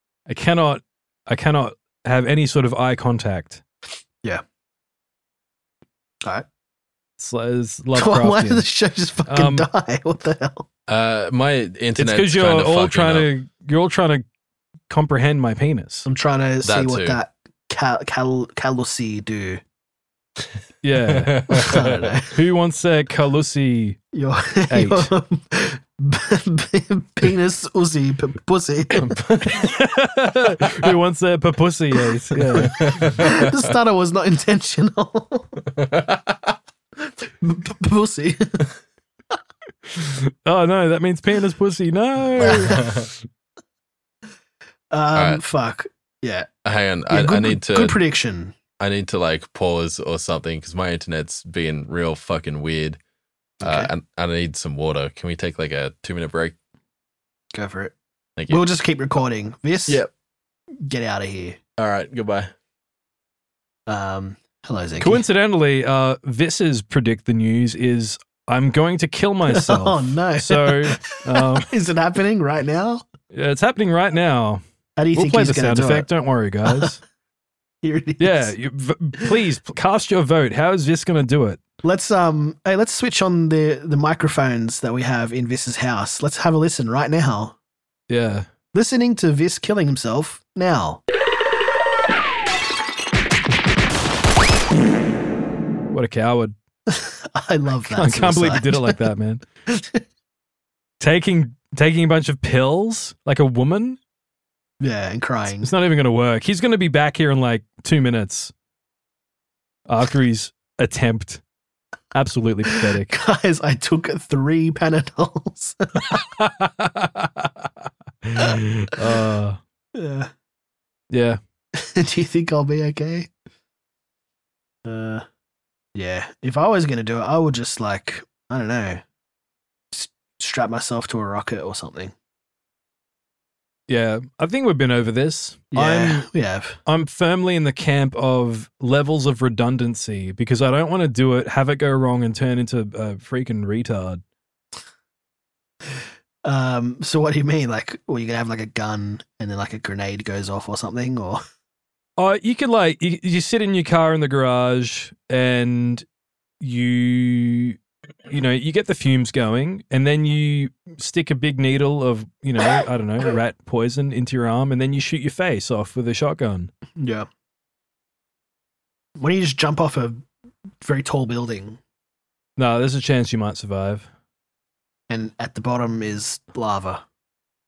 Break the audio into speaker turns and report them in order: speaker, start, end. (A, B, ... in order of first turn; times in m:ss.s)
0:00.3-0:03.6 A
0:07.2-0:08.6 A
0:07.9-0:10.6 B
0:09.3-0:09.7 A
0:10.9-0:13.3 C
0:12.0-0:14.2 A
0:14.9-0:16.0 A
0:16.0-0:19.6 B
0:16.6-0:17.2 C
0:20.8-0:21.7 A
0:21.0-0:22.1 C
0:21.6-0:22.4 B
0:22.3-0:24.0 A
0:24.1-0:29.1 B
0:24.7-0:25.1 A
0:29.0-0:29.6 C
0:29.4-0:32.9 A
0:32.5-0:35.5 B
0:32.6-0:33.5 C
0:35.8-0:36.5 C
0:37.0-0:38.6 B
0:40.0-0:42.9 A
0:42.4-0:42.9 B
0:42.5-0:43.1 C
0:44.9-0:46.5 B
0:45.1-0:45.4 C
0:46.6-0:48.0 C
0:47.1-0:48.6 B
0:48.8-0:53.0 C
0:53.6-0:53.9 B
0:53.6-0:56.5 C
0:57.5-0:58.0 B
0:58.4-0:58.6 C
0:58.5-1:00.0 B
1:00.8-1:01.6 B
1:01.8-1:02.5 C
1:03.9-1:05.2 B
1:05.0-1:11.7 A
1:09.5-1:13.0 B
1:13.3-1:14.6 A
1:15.0-1:16.1 B
1:15.1-1:17.0 A
1:16.6-1:16.9 B
1:17.8-1:18.5 B
1:18.2-1:21.6 A
1:21.8-1:27.5 B
1:28.1-1:28.5 A
1:28.7-1:31.0 B
1:35.9-1:36.5 A
1:36.9-1:39.0 B
1:37.9-1:39.4 A
1:39.7-1:40.0 B
1:41.0-1:44.0 A
1:44.8-1:45.7 B
1:45.6-1:48.5 A
1:49.9-1:51.4 A
1:52.1-1:53.1 A
1:52.7-1:56.2 B
1:56.1-1:57.5 A
1:58.2-1:59.6 A
1:59.9-2:00.3 B
2:01.1-2:01.4 A
2:01.7-2:03.3 B
2:04.8-2:05.2 B
2:05.9-2:09.0 B
2:09.9-2:12.1 B
2:13.9-2:16.2 A
2:15.7-2:16.8 B
2:16.9-2:24.2 A
2:26.4-2:31.4 B
2:32.2-2:36.0 A
2:36.6-2:37.8 A
2:38.3-2:46.7 A
2:47.0-2:47.3 B
2:49.2-2:50.2 B
2:50.8-2:51.8 B
2:52.6-2:54.1 A
2:55.1-2:57.0 B